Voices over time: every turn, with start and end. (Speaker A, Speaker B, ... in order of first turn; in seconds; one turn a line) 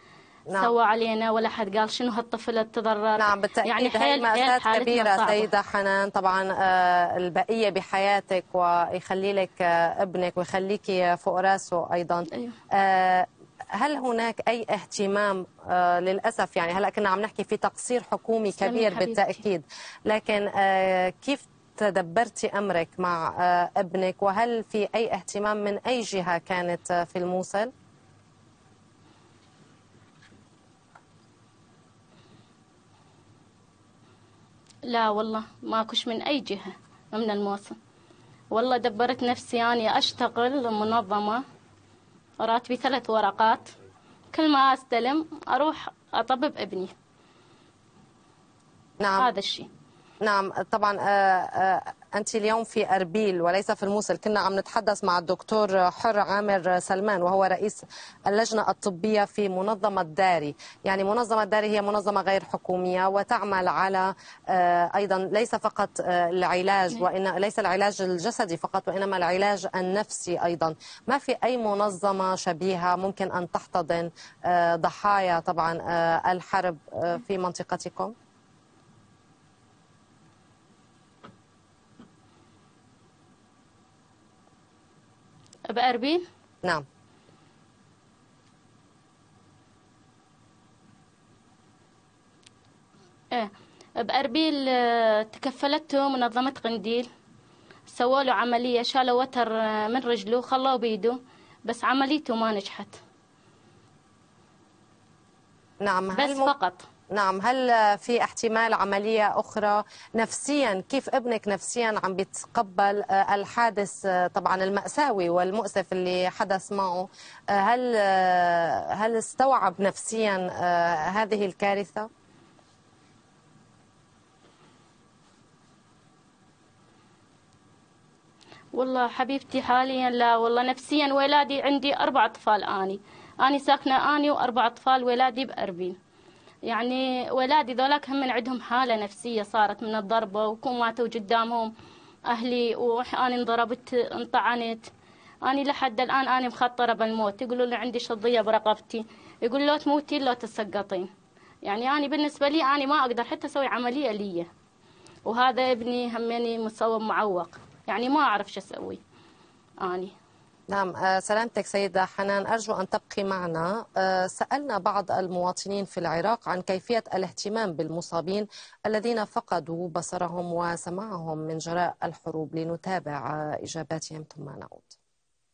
Speaker A: 0.6-5.5
Speaker B: 3.2-27.7
Speaker A: 18.6-19.4
Speaker A: 34.9-37.8
Speaker A: 38.5-41.4
Speaker A: 42.4-43.7
Speaker A: 44.3-46.9
Speaker B: 49.0-49.3
Speaker A: 49.2-49.7
Speaker B: 50.2-78.1
Speaker A: 85.7-86.2
Speaker A: 93.3-97.1
Speaker A: 97.9-103.0
Speaker B: 105.8-106.5
Speaker A: 106.2-106.8
Speaker B: 107.1-122.1
Speaker A: 128.7-136.0
Speaker A: 136.7-141.7
Speaker A: 142.3-144.9
Speaker A: 145.4-151.1
Speaker A: 151.6-154.5
Speaker A: 155.3-159.0
Speaker A: 159.8-160.1
Speaker B: 160.7-175.0